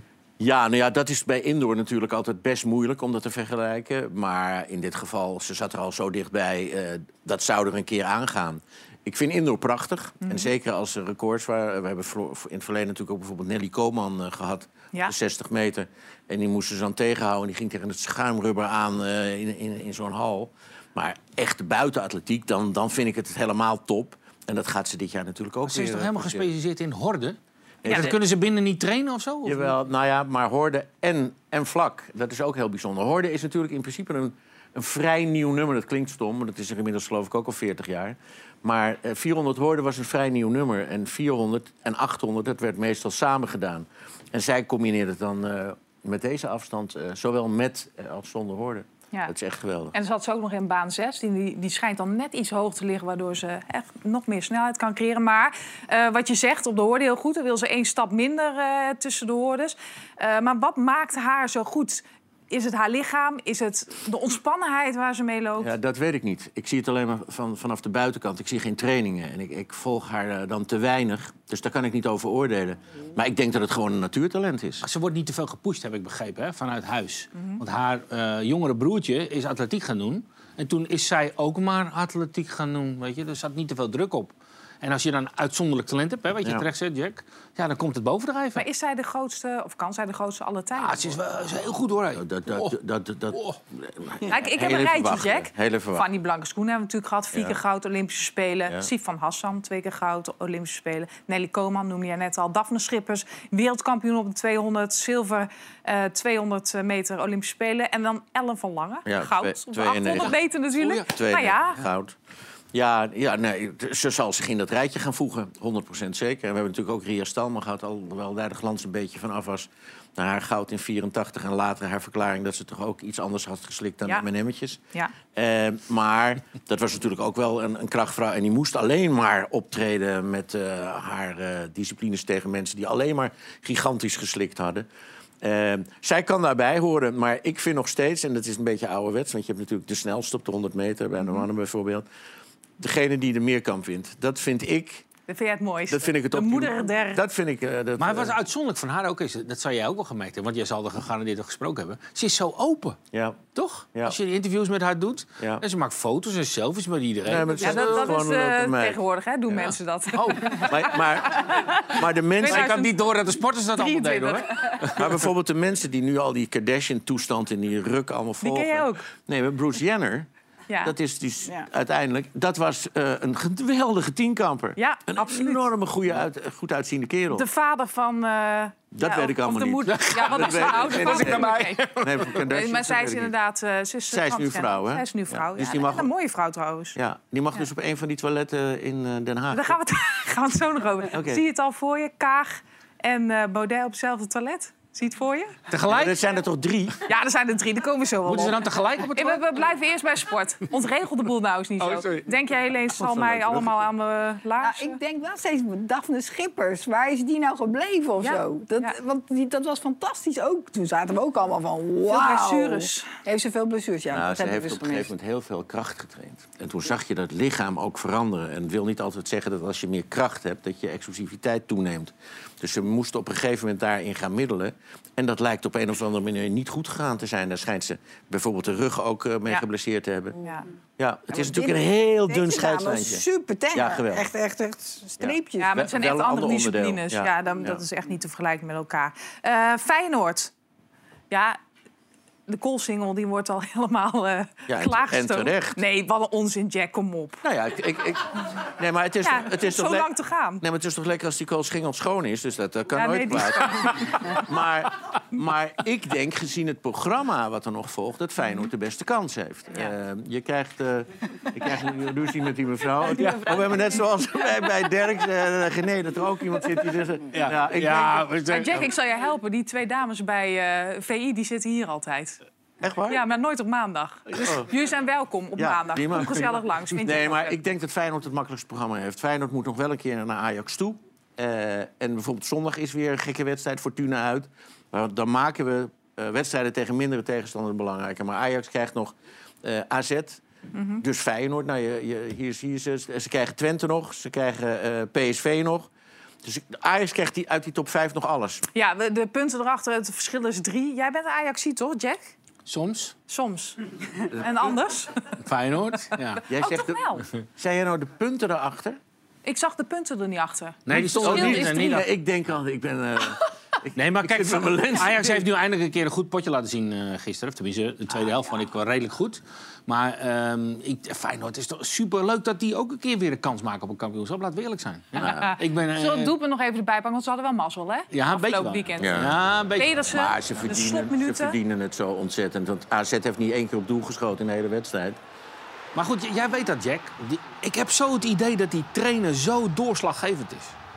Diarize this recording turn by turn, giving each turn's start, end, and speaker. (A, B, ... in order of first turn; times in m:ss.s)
0:00.4-0:26.5 A
0:10.2-0:10.5 B
0:25.7-0:29.7 C
0:27.8-0:28.2 A
0:27.8-0:28.1 B
0:29.4-0:49.9 A
0:49.9-1:05.7 B
1:05.6-1:14.8 A
1:14.8-1:28.6 C
1:17.4-1:17.6 B
1:28.5-1:31.2 B
1:30.8-1:32.8 C
1:32.1-1:36.0 A
1:33.3-1:33.6 C
1:34.3-1:51.8 B
1:37.3-1:37.6 A
1:49.0-1:50.4 A
1:50.1-1:51.0 C
1:51.0-1:52.1 A
1:52.7-2:04.8 A
2:05.3-2:14.8 A
2:15.4-2:22.0 A
2:22.8-2:25.0 A
2:25.3-2:27.2 B
2:25.9-2:28.4 A
2:28.0-2:33.0 C
2:33.1-2:34.2 A
2:33.5-2:38.1 C
2:37.2-2:39.7 A
2:37.6-2:40.7 B
2:40.1-2:41.8 C
2:40.6-2:42.8 A
2:42.4-2:43.0 B
2:42.4-2:45.1 C
2:43.8-2:44.8 B
2:44.9-2:50.3 A
2:48.4-2:49.0 B
2:50.8-2:57.4 A
2:54.8-2:55.6 B
2:57.3-3:07.0 B
2:58.9-3:03.3 A
2:59.9-3:02.4 C
3:04.1-3:06.1 A
3:06.9-3:09.8 A
3:09.5-3:15.5 B
3:11.1-3:11.4 A
3:15.7-3:16.2 C
3:15.8-3:17.0 A
3:17.0-3:25.0 B
3:18.2-3:19.4 C
3:21.8-3:22.3 C
3:23.1-3:23.5 A
3:23.3-3:23.6 C
3:24.6-3:35.1 D
3:28.2-3:28.9 B
3:32.1-3:33.1 B
3:34.1-3:50.4 A
3:50.4-3:50.6 B
3:51.0-3:54.3 A
3:51.3-3:55.7 D
3:55.2-3:57.8 A
3:55.6-4:00.5 B
4:01.3-4:01.6 B
4:02.5-4:07.4 B
4:04.7-4:05.8 A
4:07.4-4:28.8 A
4:09.2-4:10.6 B
4:12.9-4:14.4 B
4:23.1-4:23.5 C
4:27.3-4:28.9 C
4:28.5-4:32.4 B
4:32.8-4:33.2 A
4:33.1-4:37.6 B
4:34.4-4:34.7 A
4:35.6-4:50.4 A
4:50.7-4:51.0 B
4:51.0-4:55.9 A
4:56.4-4:58.6 A
4:58.8-5:02.3 B
5:02.6-5:03.1 C
5:03.3-5:03.8 B
5:04.3-5:05.2 B
5:05.4-5:06.4 C
5:06.5-5:09.0 A
5:06.5-5:07.2 B
5:09.4-5:12.0 B
5:10.9-5:12.1 C
5:10.9-5:15.4 A
5:14.0-5:26.3 C
5:25.2-5:25.5 A
5:25.2-5:31.6 B
5:28.1-5:30.0 C
5:29.0-5:29.4 A
5:30.0-5:35.2 A
5:35.9-5:40.8 C